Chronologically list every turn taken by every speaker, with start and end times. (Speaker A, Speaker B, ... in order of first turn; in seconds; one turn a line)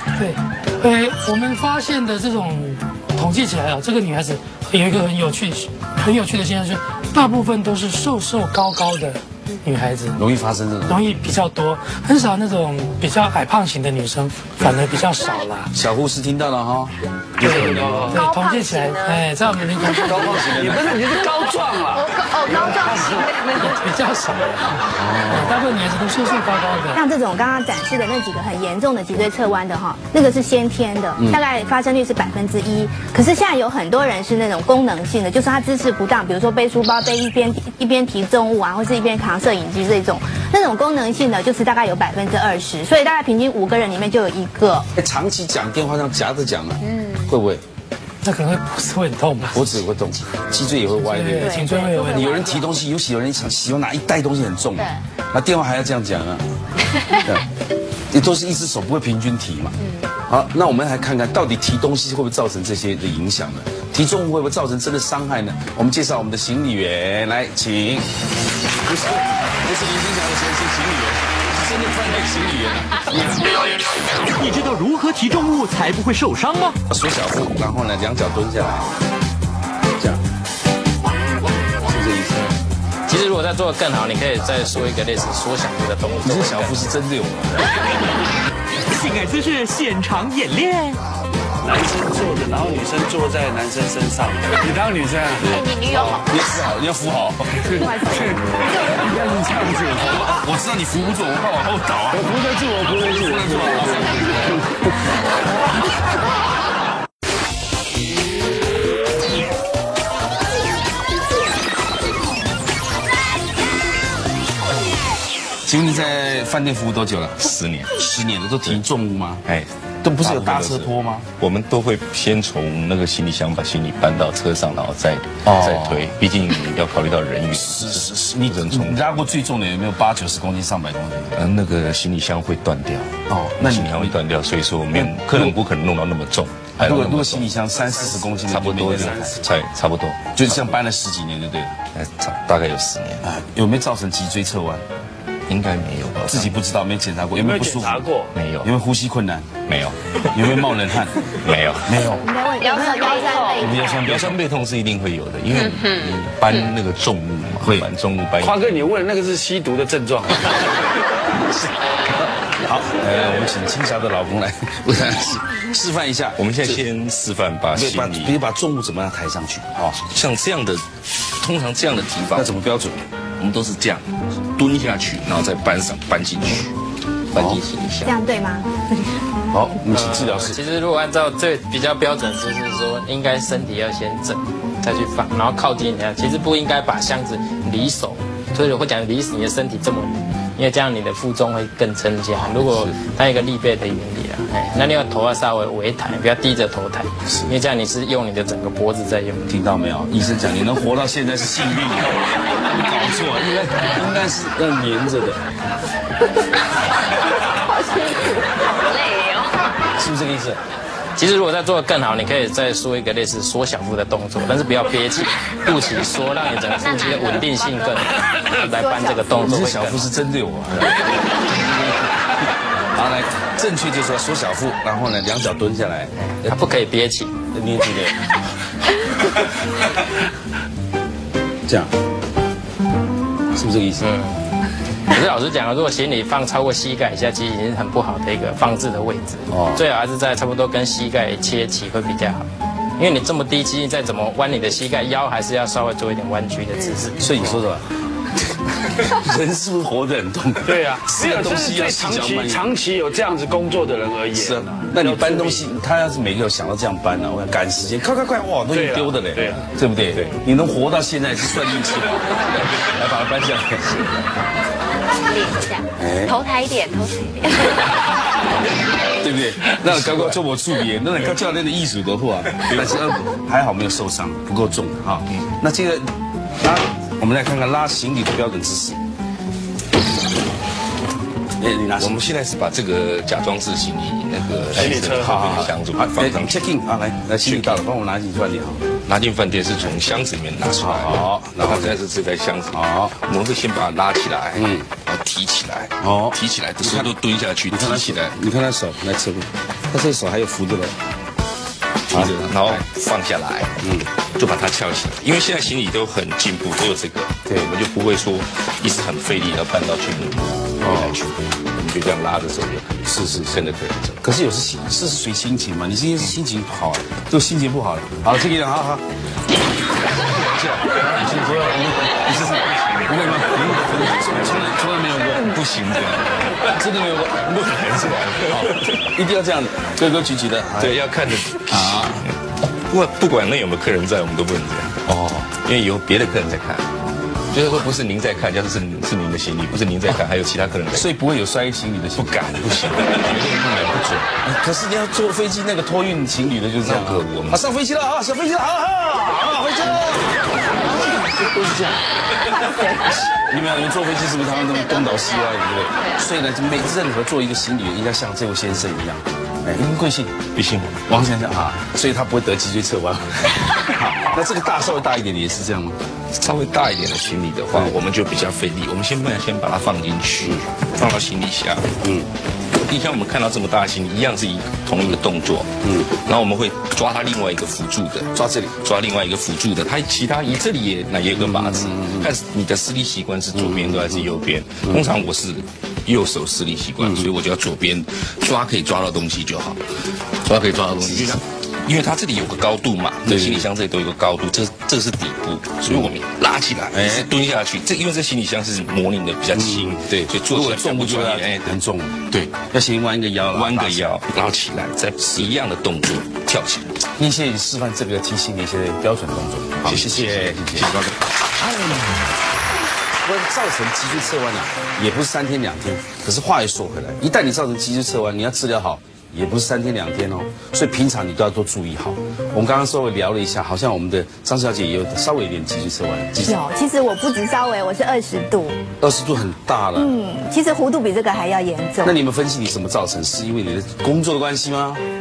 Speaker A: 0.1-10.2
Speaker B: 10.2-11.0
Speaker A: 10.9-15.7
Speaker B: 15.7-18.2
Speaker A: 17.4-20.5
Speaker C: 17.5-18.2
Speaker D: 18.1-20.0
Speaker B: 19.9-21.0
Speaker C: 20.5-23.3
Speaker D: 21.9-23.8
Speaker A: 23.6-27.0
Speaker B: 24.9-25.6
Speaker E: 26.9-44.9
Speaker B: 45.0-47.6
Speaker D: 46.8-47.3
Speaker A: 48.2-49.8
Speaker B: 49.5-56.4
Speaker A: 50.9-52.5
Speaker D: 51.4-52.8
Speaker D: 54.8-55.0
Speaker B: 57.1-57.5
Speaker B: 58.1-68.1
Speaker D: 59.8-60.1
Speaker B: 68.8-73.5
Speaker F: 74.3-76.8
Speaker B: 76.9-78.9
Speaker B: 81.8-82.4
Speaker G: 82.3-86.9
Speaker B: 86.2-87.7
Speaker F: 88.9-91.0
Speaker C: 91.6-95.6
Speaker D: 95.4-96.6
Speaker B: 95.8-97.8
Speaker C: 97.6-100.3
Speaker B: 100.1-102.3
Speaker C: 102.1-104.7
Speaker B: 103.0-104.6
Speaker B: 115.7-119.4
Speaker H: 117.4-117.9
Speaker B: 120.0-121.3
Speaker H: 120.2-129.1
Speaker B: 125.4-126.1
Speaker B: 127.5-131.4
Speaker H: 131.3-137.5
Speaker B: 133.3-134.1
Speaker B: 134.9-135.6
Speaker B: 136.8-139.4
Speaker C: 137.9-139.4
Speaker H: 138.4-140.6
Speaker B: 140.3-141.8
Speaker H: 141.9-143.2
Speaker B: 143.2-144.8
Speaker H: 145.5-146.5
Speaker B: 146.3-148.0
Speaker C: 147.4-148.3
Speaker H: 148.3-148.7
Speaker B: 148.6-149.6
Speaker H: 149.7-150.5
Speaker B: 150.3-152.2
Speaker H: 151.3-152.0
Speaker E: 152.1-154.0
Speaker D: 152.6-153.9
Speaker B: 153.6-154.4
Speaker H: 154.0-158.6
Speaker D: 155.5-156.6
Speaker B: 157.6-157.9
Speaker C: 158.4-160.7
Speaker B: 162.6-166.8
Speaker H: 166.4-168.3
Speaker B: 167.7-170.0
Speaker H: 170.0-170.8
Speaker H: 171.4-172.5
Speaker B: 172.3-173.0
Speaker H: 173.4-174.0
Speaker H: 174.6-176.7
Speaker H: 177.3-178.1
Speaker B: 177.3-177.6
Speaker E: 178.0-179.1
Speaker B: 179.5-180.6
Speaker G: 179.9-199.5
Speaker H: 192.6-192.9
Speaker B: 197.2-197.5
Speaker B: 199.5-205.4
Speaker D: 207.1-209.7
Speaker B: 210.0-210.6
Speaker G: 211.2-220.1
Speaker D: 216.8-218.5
Speaker E: 218.8-219.3
Speaker B: 219.4-221.9
Speaker B: 222.9-226.5
Speaker G: 226.2-227.3
Speaker B: 227.5-228.3
Speaker B: 231.7-231.9
Speaker B: 233.5-234.1
Speaker G: 234.0-234.3
Speaker G: 235.1-247.5
Speaker B: 239.5-239.8
Speaker B: 247.2-247.9
Speaker B: 248.8-252.7
Speaker C: 250.6-255.7
Speaker B: 254.3-264.1
Speaker C: 258.7-259.7
Speaker D: 265.2-267.9
Speaker B: 266.0-266.4
Speaker B: 269.2-276.1
Speaker H: 269.9-270.4
Speaker H: 272.6-272.9
Speaker B: 276.6-279.0
Speaker B: 281.6-282.2
Speaker H: 282.0-286.6
Speaker C: 284.7-285.6
Speaker B: 284.7-288.9
Speaker H: 287.4-287.8
Speaker H: 289.0-298.3
Speaker B: 290.8-291.9
Speaker B: 292.7-293.1
Speaker B: 294.6-294.9
Speaker B: 296.0-297.1
Speaker B: 297.7-301.0
Speaker H: 302.1-303.7
Speaker B: 302.1-302.8
Speaker H: 304.4-314.2
Speaker B: 310.8-311.2
Speaker B: 313.1-313.6
Speaker B: 314.2-319.0
Speaker B: 320.2-325.6
Speaker H: 321.1-321.7
Speaker H: 322.6-323.0
Speaker H: 325.4-326.6
Speaker B: 326.6-331.0
Speaker H: 328.3-328.9
Speaker H: 330.8-332.3
Speaker B: 331.7-332.2
Speaker H: 332.9-336.9
Speaker H: 337.5-341.1
Speaker B: 340.9-343.6
Speaker H: 342.2-344.2
Speaker B: 344.2-352.0
Speaker H: 346.8-347.6
Speaker D: 352.6-353.0
Speaker B: 352.8-360.5
Speaker D: 354.6-356.2
Speaker H: 360.5-361.0
Speaker B: 361.1-366.0
Speaker H: 366.3-371.9
Speaker B: 372.0-372.3
Speaker H: 372.9-389.8
Speaker B: 375.8-376.1
Speaker B: 378.3-378.8
Speaker B: 381.4-382.3
Speaker B: 383.5-384.2
Speaker H: 390.4-401.7
Speaker B: 391.0-391.4
Speaker B: 393.2-393.7
Speaker B: 396.9-397.3
Speaker B: 399.5-404.2
Speaker H: 402.3-402.6
Speaker H: 403.5-406.9
Speaker B: 407.2-411.0
Speaker H: 409.8-411.2
Speaker B: 413.2-426.6
Speaker E: 426.4-428.8
Speaker B: 429.0-430.1
Speaker E: 429.9-432.1
Speaker B: 432.0-435.0